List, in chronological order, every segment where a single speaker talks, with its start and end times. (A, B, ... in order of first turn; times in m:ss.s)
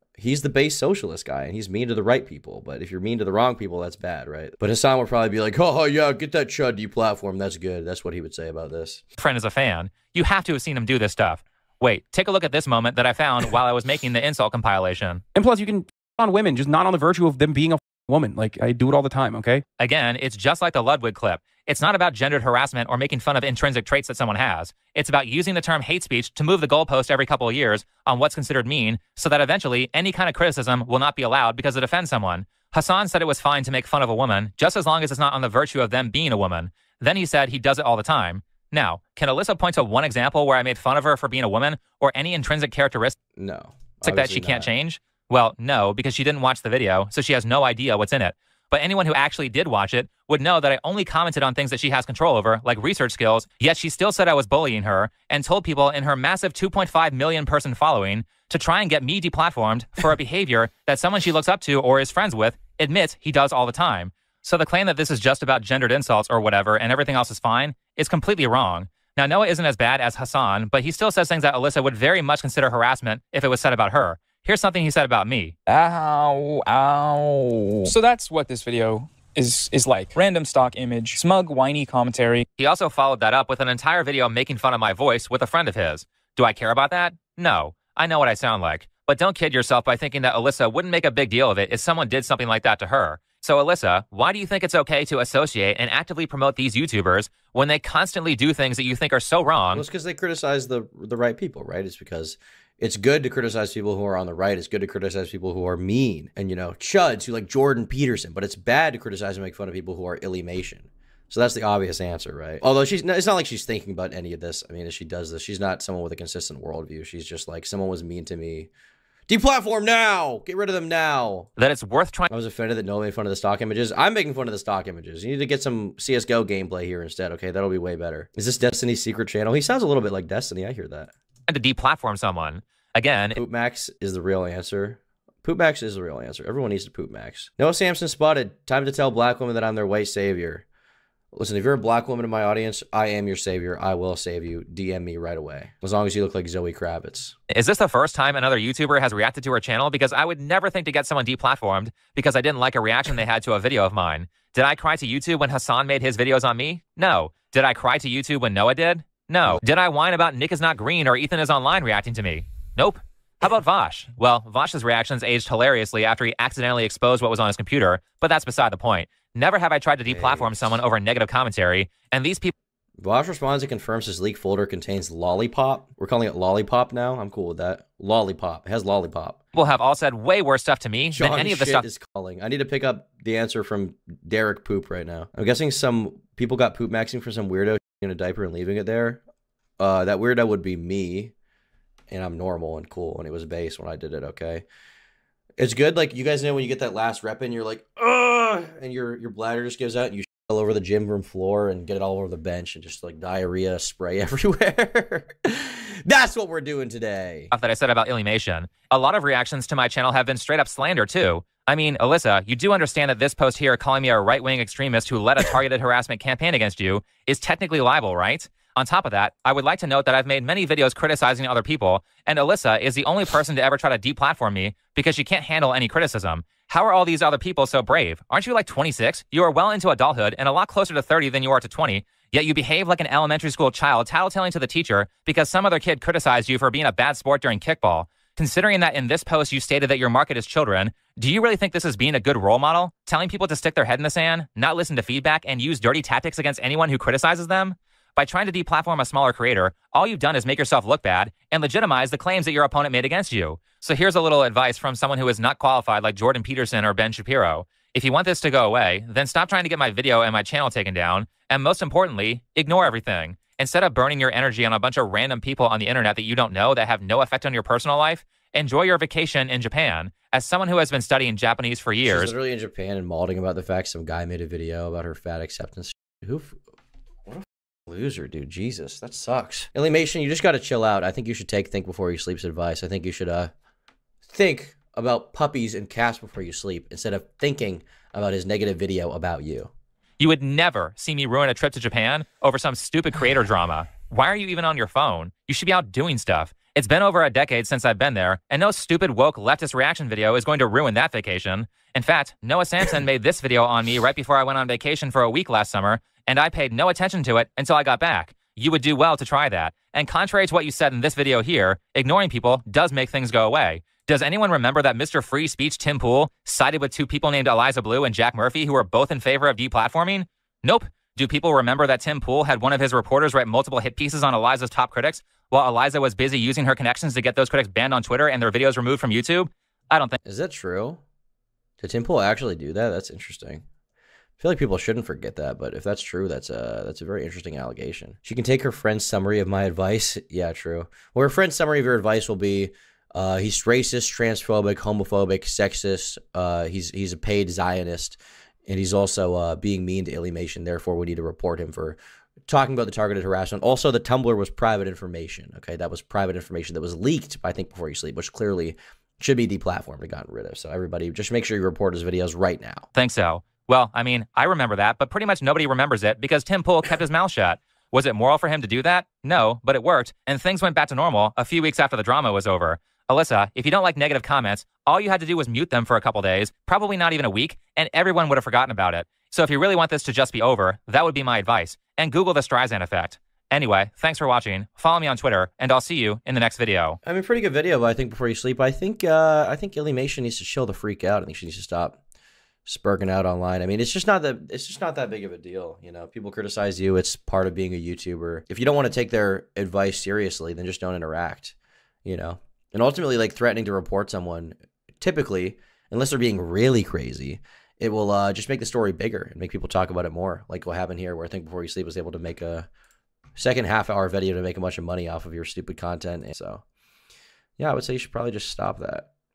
0:00.2-0:09.0 A
0:09.2-0:15.2 B
0:15.3-0:19.6 C
0:19.8-0:43.2 B
0:43.4-0:44.7 A
0:44.0-1:15.5 B
1:15.7-1:22.4 D
1:22.6-1:39.8 B
1:39.7-1:58.7 A
1:59.3-2:01.5 A
2:01.6-2:02.3 B
2:02.3-2:11.1 A
2:11.5-2:13.4 B
2:13.3-2:20.6 A
2:21.3-2:27.3 A
2:27.5-2:52.5 B
2:50.1-2:50.8 A
2:53.0-2:59.4 A
2:59.5-3:01.8 B
3:01.1-3:09.2 A
3:09.8-3:11.3 A
3:12.1-3:14.6 A
3:15.6-3:27.5 A
3:27.5-4:32.3 B
4:32.0-4:36.6 A
4:37.3-4:43.5 A
4:44.3-4:49.7 A
4:50.2-5:30.2 B
5:30.2-5:31.0 A
5:31.8-5:33.6 A
5:34.4-6:02.9 A
6:03.0-6:27.0 B
6:27.0-6:32.0 A
6:32.6-6:52.7 A
6:53.4-6:56.6 A
6:57.6-6:59.1 A